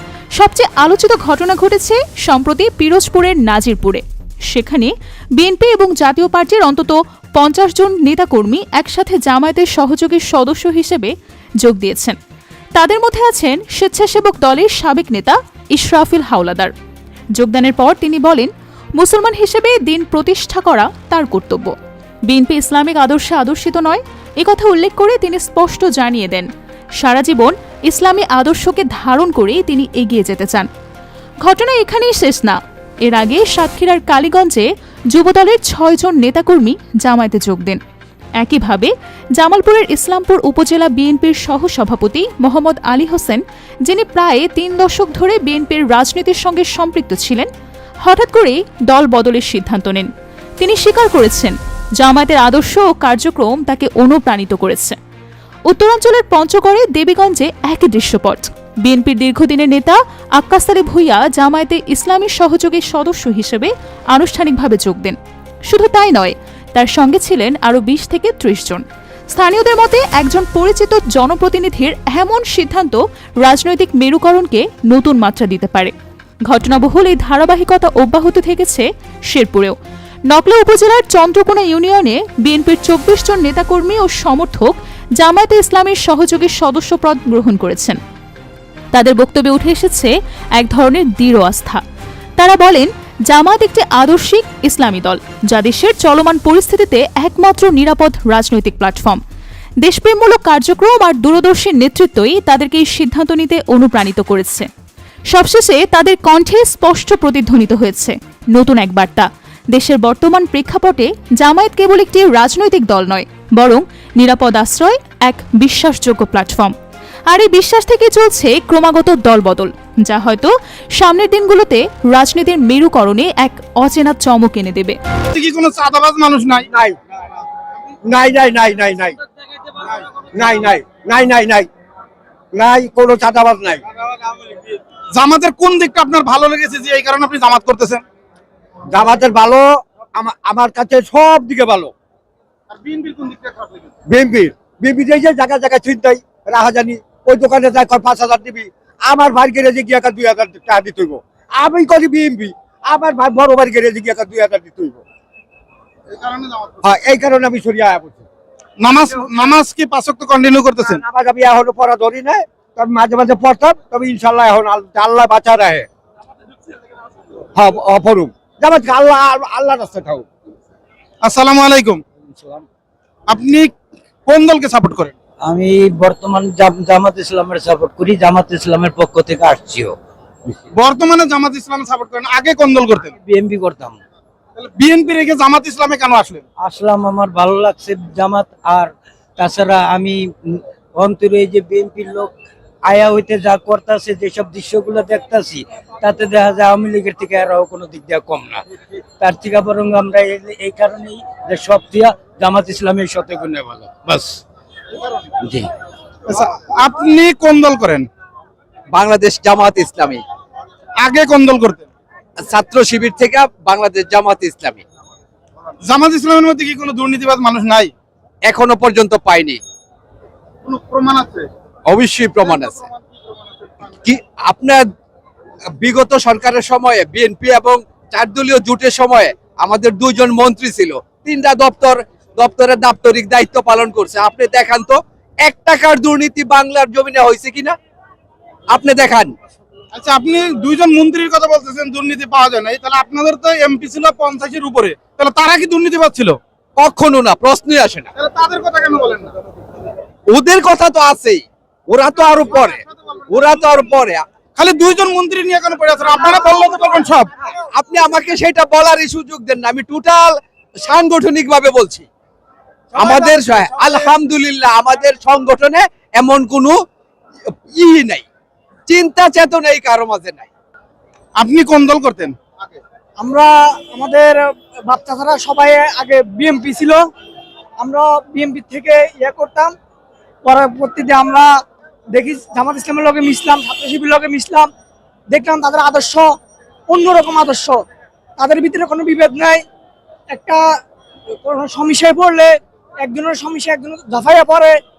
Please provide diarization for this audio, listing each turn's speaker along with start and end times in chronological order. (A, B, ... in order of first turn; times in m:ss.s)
0:00.4-0:12.2 A
0:12.8-0:16.7 A
0:17.4-0:21.7 A
0:22.3-0:26.5 A
0:27.0-0:30.7 A
0:31.4-0:37.8 A
0:38.4-0:47.5 A
0:48.1-0:50.1 A
0:50.6-0:55.0 A
0:55.7-1:05.2 A
1:05.7-1:15.9 A
1:16.5-1:19.8 A
1:20.3-1:28.0 A
1:28.9-1:31.8 A
1:32.4-1:39.2 A
1:39.8-1:44.7 A
1:45.3-1:56.7 A
1:57.3-2:05.0 A
2:05.3-2:06.7 B
2:08.1-2:09.2 C
2:10.4-2:11.7 C
2:12.5-2:13.8 C
2:15.1-2:18.0 B
2:18.9-2:19.6 C
2:20.2-2:21.9 C
2:22.7-2:23.9 B
2:24.1-2:35.0 C
2:36.1-2:36.8 B
2:36.8-2:38.2 C
2:38.8-2:41.0 B
2:40.8-2:45.9 C
2:47.6-2:50.3 C
2:51.2-2:52.0 B
2:52.3-2:52.6 D
2:53.3-2:53.7 B
2:54.3-2:55.1 B
2:55.4-3:00.0 D
3:00.8-3:03.1 B
3:03.1-3:04.0 D
3:04.6-3:06.4 B
3:06.6-3:12.3 D
3:12.8-3:18.6 D
3:19.2-3:24.4 D
3:26.3-3:28.1 B
3:28.9-3:30.2 E
3:31.0-3:31.9 B
3:32.4-3:34.8 E
3:35.9-3:37.9 B
3:38.4-3:39.6 E
3:40.6-3:41.5 B
3:41.9-3:42.8 E
3:42.4-3:43.8 B
3:44.0-3:44.8 E
3:45.8-3:57.8 E
3:58.7-3:59.3 E
3:59.9-4:06.4 B
4:06.8-4:08.1 E
4:08.2-4:09.3 B
4:10.3-4:14.2 E
4:14.6-4:17.3 B
4:17.8-4:22.1 E
4:23.0-4:23.2 B
4:23.0-4:26.8 E
4:27.7-4:28.2 E
4:28.9-4:30.5 E
4:31.4-4:32.8 B
4:33.2-4:37.0 F
4:37.8-4:39.7 F
4:40.4-4:41.5 F
4:42.1-4:44.7 F
4:45.3-4:46.3 F
4:46.9-4:47.8 F
4:48.4-4:49.6 F
4:50.3-4:50.6 F
4:51.4-4:54.8 F